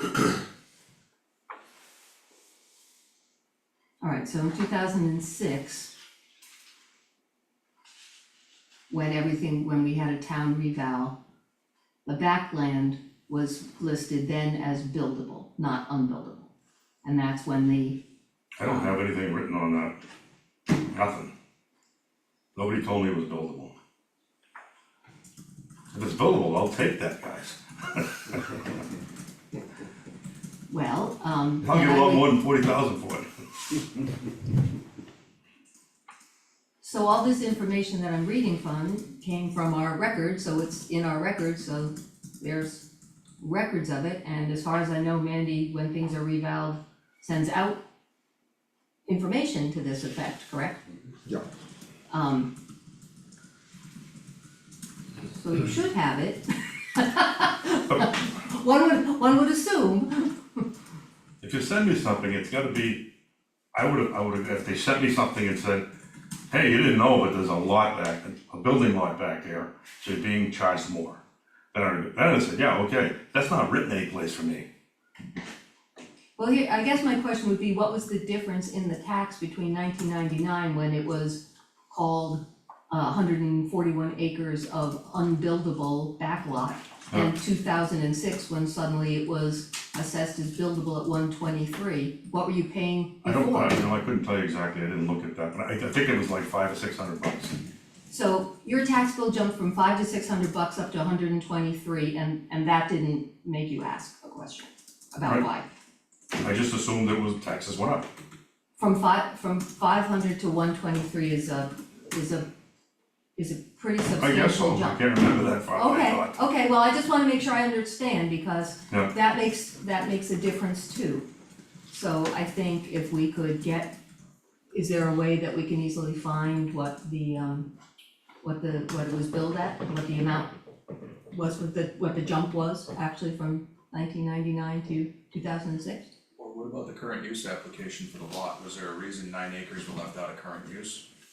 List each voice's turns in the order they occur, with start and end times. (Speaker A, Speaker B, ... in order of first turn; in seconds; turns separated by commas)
Speaker A: 4.0-5.9, Speaker A: 8.9-11.2, Speaker A: 12.0-16.5, Speaker A: 17.0-18.0, Speaker B: 18.6-19.9, Speaker A: 18.6-18.9, Speaker B: 20.7-21.3, Speaker B: 22.5-23.7, Speaker B: 25.9-28.4, Speaker A: 30.7-32.3, Speaker B: 31.6-33.3, Speaker A: 36.8-42.8, Speaker A: 43.4-47.8, Speaker A: 49.1-50.8, Speaker A: 52.1-52.5, Speaker A: 55.3-60.6, Speaker B: 61.4-63.1, Speaker B: 63.8-65.8, Speaker B: 66.5-71.2, Speaker B: 71.7-74.7, Speaker A: 76.4-93.8, Speaker B: 93.2-97.6, Speaker A: 98.1-105.7, Speaker B: 106.4-108.1, Speaker A: 108.8-112.5, Speaker A: 113.4-115.0, Speaker B: 114.2-116.4, Speaker A: 115.7-121.2, Speaker A: 121.9-123.9, Speaker A: 124.7-127.7, Speaker A: 128.4-130.5, Speaker A: 131.3-136.1, Speaker C: 136.4-141.1